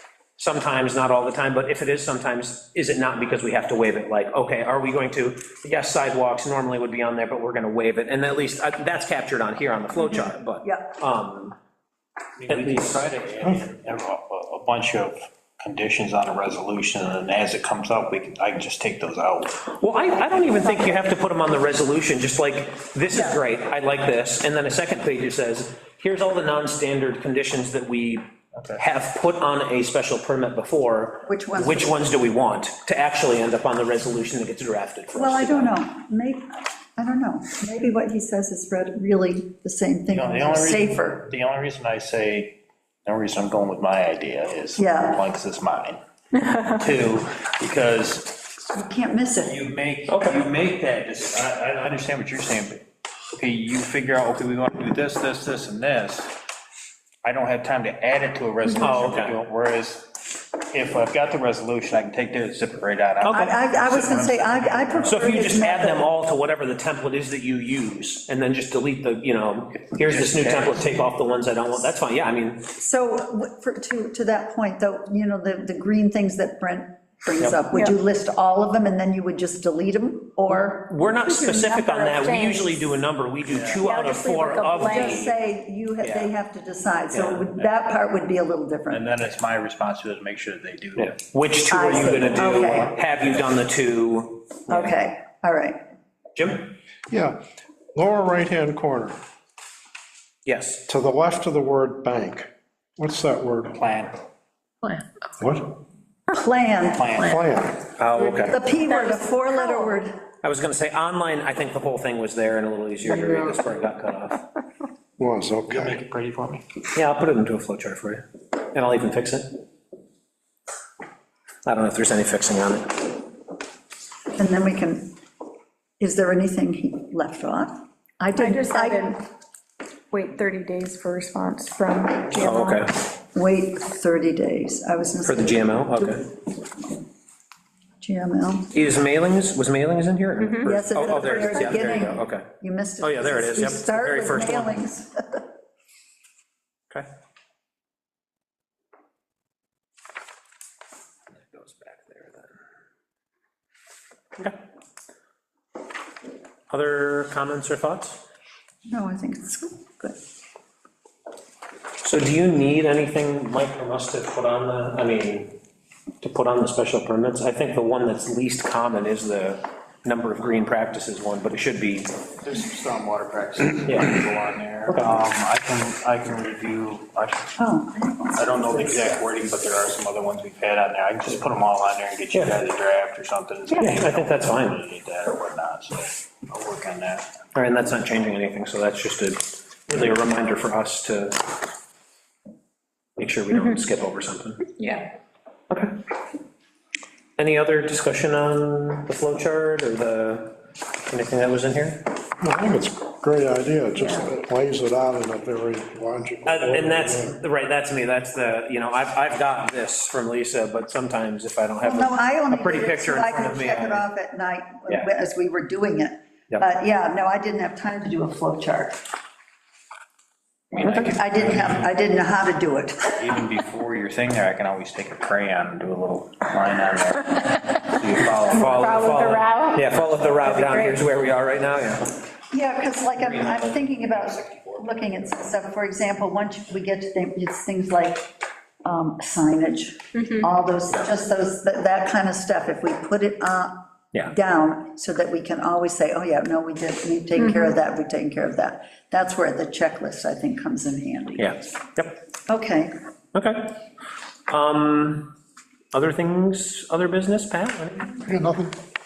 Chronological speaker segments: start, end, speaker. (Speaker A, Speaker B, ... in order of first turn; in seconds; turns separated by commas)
Speaker A: 0.4-11.6, Speaker B: 10.0-10.9, Speaker C: 12.4-19.7, Speaker A: 12.5-13.1, Speaker A: 19.7-28.2, Speaker B: 23.1-23.4, Speaker A: 28.8-35.8, Speaker B: 31.2-32.0, Speaker B: 35.1-41.2, Speaker C: 40.1-46.0, Speaker B: 44.8-45.2, Speaker C: 46.5-48.5, Speaker B: 48.7-49.6, Speaker C: 49.4-56.4, Speaker A: 50.1-50.4, Speaker C: 57.2-65.2, Speaker A: 58.8-59.4, Speaker A: 63.2-63.6, Speaker B: 63.3-66.0, Speaker A: 65.0-72.7, Speaker C: 70.0-70.8, Speaker B: 72.8-80.9, Speaker A: 80.8-85.3, Speaker D: 81.2-82.8, Speaker C: 83.5-83.8, Speaker D: 83.8-85.3, Speaker B: 84.8-89.1, Speaker A: 86.0-86.3, Speaker A: 87.1-87.5, Speaker C: 88.9-91.2, Speaker A: 91.0-95.0, Speaker B: 91.7-92.9, Speaker C: 91.9-92.9, Speaker B: 94.7-95.8, Speaker A: 96.3-96.7, Speaker E: 97.1-97.4, Speaker E: 97.9-99.2, Speaker A: 100.5-100.8, Speaker E: 100.9-103.8, Speaker C: 103.7-104.2, Speaker E: 105.4-105.8, Speaker B: 106.3-107.2, Speaker C: 106.9-107.4, Speaker E: 107.2-107.8, Speaker A: 108.0-108.6, Speaker B: 108.3-110.2, Speaker A: 110.4-114.5, Speaker E: 115.2-116.0, Speaker C: 115.7-116.6, Speaker A: 116.9-119.6, Speaker A: 121.6-123.1, Speaker B: 124.3-125.1, Speaker B: 126.0-129.3, Speaker D: 128.4-129.2, Speaker D: 130.1-132.2, Speaker B: 132.3-136.2, Speaker A: 132.3-133.0, Speaker A: 135.2-136.2, Speaker B: 138.0-138.7, Speaker A: 138.7-142.5, Speaker D: 140.4-140.7, Speaker B: 140.6-145.4, Speaker A: 143.0-144.8, Speaker A: 151.5-152.5, Speaker A: 156.7-158.2, Speaker B: 158.8-160.2, Speaker A: 162.0-165.6, Speaker A: 166.2-172.2, Speaker C: 172.4-177.6, Speaker A: 173.9-174.1, Speaker A: 174.9-175.1, Speaker B: 177.6-179.2, Speaker C: 178.3-187.4, Speaker A: 183.8-184.8, Speaker A: 187.5-191.4, Speaker A: 193.2-194.7, Speaker A: 195.7-196.0, Speaker A: 197.4-202.1, Speaker E: 202.4-207.3, Speaker A: 206.4-214.1, Speaker B: 211.8-219.0, Speaker C: 220.7-221.8, Speaker A: 220.8-221.2, Speaker B: 221.0-223.3, Speaker C: 223.2-229.0, Speaker A: 228.5-232.2, Speaker D: 228.6-229.8, Speaker D: 230.4-231.0, Speaker B: 232.5-238.3, Speaker A: 233.2-234.8, Speaker B: 238.8-251.6, Speaker A: 251.4-252.2, Speaker B: 252.5-252.9, Speaker A: 253.3-253.8, Speaker A: 254.5-255.3, Speaker A: 255.9-258.1, Speaker E: 258.2-258.8